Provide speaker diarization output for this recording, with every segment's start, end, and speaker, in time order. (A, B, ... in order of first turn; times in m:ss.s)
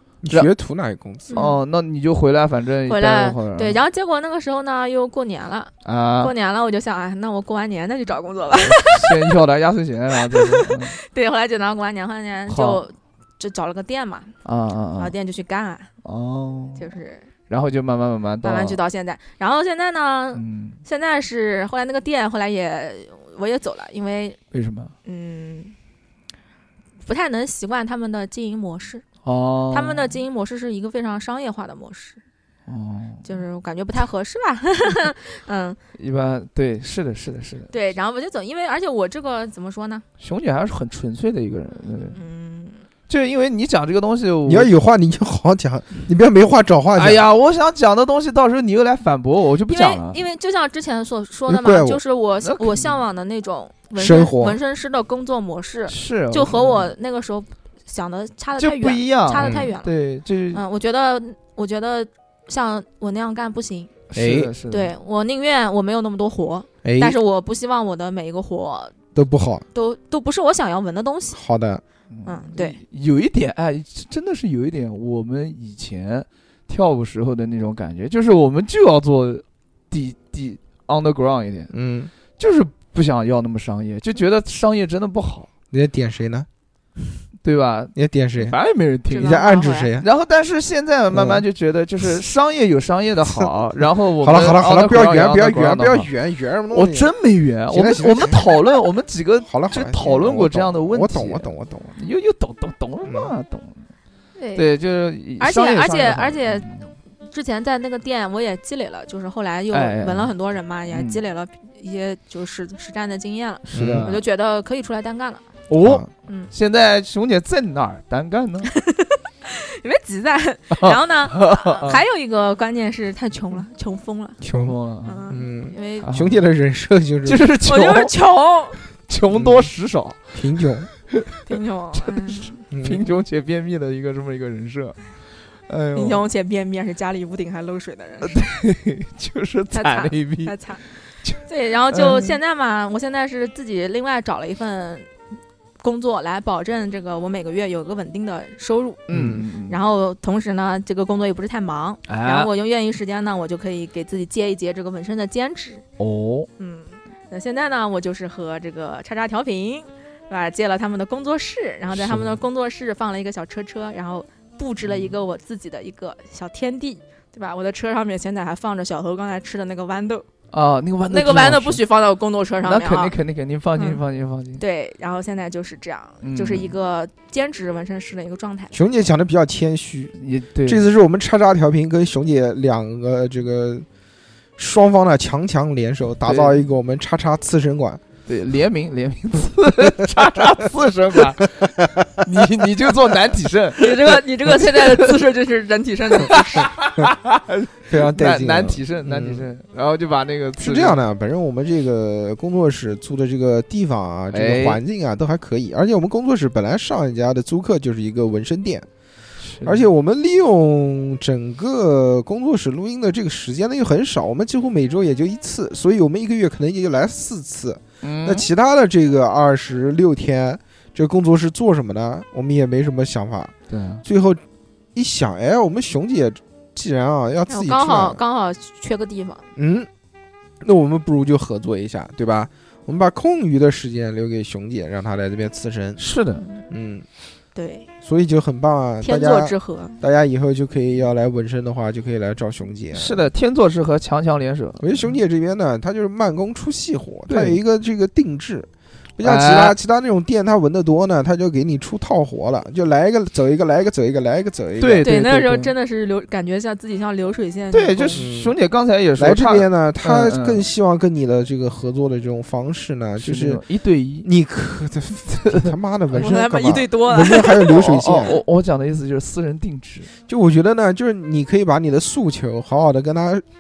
0:00.2-0:01.4 A
0:01.3-0:01.6 B
0:01.3-0:03.8 C
0:02.9-0:09.3 B
0:05.8-0:06.3 C
0:08.6-0:11.0 C
0:10.3-0:14.3 B
0:12.5-0:12.8 C
0:14.4-0:15.1 C
0:15.0-0:15.9 B
0:16.0-0:16.9 C
0:16.8-0:17.3 B
0:17.5-0:18.8 C
0:18.4-0:24.4 B
0:20.3-0:20.8 C
0:24.5-0:24.9 C
0:25.0-0:25.7 B
0:27.0-0:29.0 B
0:29.2-0:30.1 C
0:29.7-0:32.2 B
0:32.6-0:33.3 C
0:33.2-0:35.8 B
0:35.9-0:37.7 C
0:37.7-0:40.0 B
0:40.2-0:42.2 C
0:42.1-0:42.8 B
0:43.1-0:44.7 C
0:44.4-0:47.2 A
0:46.9-0:50.2 C
0:49.7-0:59.9 B
0:51.5-0:52.0 A
0:52.4-0:53.0 C
0:54.0-0:54.6 A
0:55.9-0:56.9 C
0:58.6-1:00.6 C
0:59.4-0:59.7 A
1:00.5-1:03.9 B
1:04.1-1:04.9 C
1:04.1-1:04.5 A
1:04.7-1:09.0 B
1:06.8-1:07.2 A
1:09.1-1:09.6 A
1:09.7-1:11.4 B
1:11.4-1:11.8 A
1:12.1-1:21.7 C
1:12.2-1:12.8 B
1:21.7-1:22.1 A
1:22.4-1:25.5 C
1:25.7-1:26.5 A
1:27.4-1:29.4 C
1:28.0-1:28.6 A
1:29.1-1:29.9 B
1:29.1-1:30.0 A
1:30.0-1:36.1 C
1:31.1-1:31.4 A
1:34.2-1:37.1 A
1:36.7-1:43.9 C
1:37.7-1:38.5 A
1:39.4-1:41.9 A
1:43.0-1:43.3 A
1:44.4-1:44.7 B
1:44.5-1:46.9 C
1:45.4-1:46.7 B
1:47.2-1:55.5 B
1:49.7-1:50.3 C
1:50.9-1:51.2 C
1:53.6-1:54.2 C
1:53.7-1:54.1 A
1:55.7-1:58.7 C
1:55.8-1:56.1 A
1:58.7-2:04.4 B
2:00.7-2:02.0 C
2:04.4-2:04.8 A
2:04.5-2:05.3 C
2:05.0-2:06.1 B
2:05.3-2:07.4 A
2:06.0-2:06.4 C
2:07.2-2:08.1 C
2:07.6-2:08.8 B
2:09.1-2:11.4 C
2:09.3-2:09.7 A
2:10.3-2:10.9 A
2:11.4-2:12.6 B
2:12.0-2:15.0 C
2:12.7-2:13.0 A
2:15.7-2:16.2 C
2:15.9-2:18.4 B
2:18.2-2:20.6 C
2:19.7-2:25.1 B
2:21.2-2:22.4 C
2:25.8-2:29.0 B
2:29.1-2:29.8 C
2:29.1-2:29.4 A
2:29.6-2:35.8 B
2:32.1-2:32.5 C
2:36.0-2:36.5 C
2:36.6-2:50.2 B
2:41.9-2:42.3 C
2:50.5-2:51.8 C
2:51.1-2:53.2 B
2:52.6-2:54.6 C
2:53.8-2:54.0 B
2:54.6-2:58.7 B
2:56.2-2:56.7 C
2:58.7-3:03.8 A
3:00.2-3:00.8 C
3:04.6-3:08.0 A
3:06.2-3:06.6 C
3:08.2-3:15.2 C
3:11.6-3:12.2 A
3:13.8-3:16.7 B
3:16.2-3:21.0 C
3:17.9-3:19.4 A
3:20.6-3:28.8 A
3:24.3-3:24.8 C
3:29.4-3:29.9 C
3:29.6-3:44.4 A
3:38.0-3:38.5 C
3:43.7-3:44.0 C
3:44.9-3:48.2 A
3:47.5-3:49.4 B
3:49.6-3:49.9 A
3:50.6-3:56.0 A
3:56.0-3:56.4 C
3:56.4-3:56.6 B
3:56.7-3:57.0 A
3:57.5-3:57.9 B
3:58.0-4:03.2 A
3:59.0-4:00.0 B
4:02.9-4:05.1 C
4:04.8-4:15.1 A
4:07.3-4:07.6 C
4:09.2-4:09.8 C
4:14.8-4:15.7 C
4:15.0-4:18.2 B
4:17.7-4:20.6 C
4:18.1-4:18.6 A
4:19.2-4:23.6 A
4:23.2-4:24.3 C
4:24.2-4:28.4 A
4:25.4-4:25.7 C
4:26.1-4:28.4 B
4:27.7-4:30.1 C
4:30.3-4:33.4 A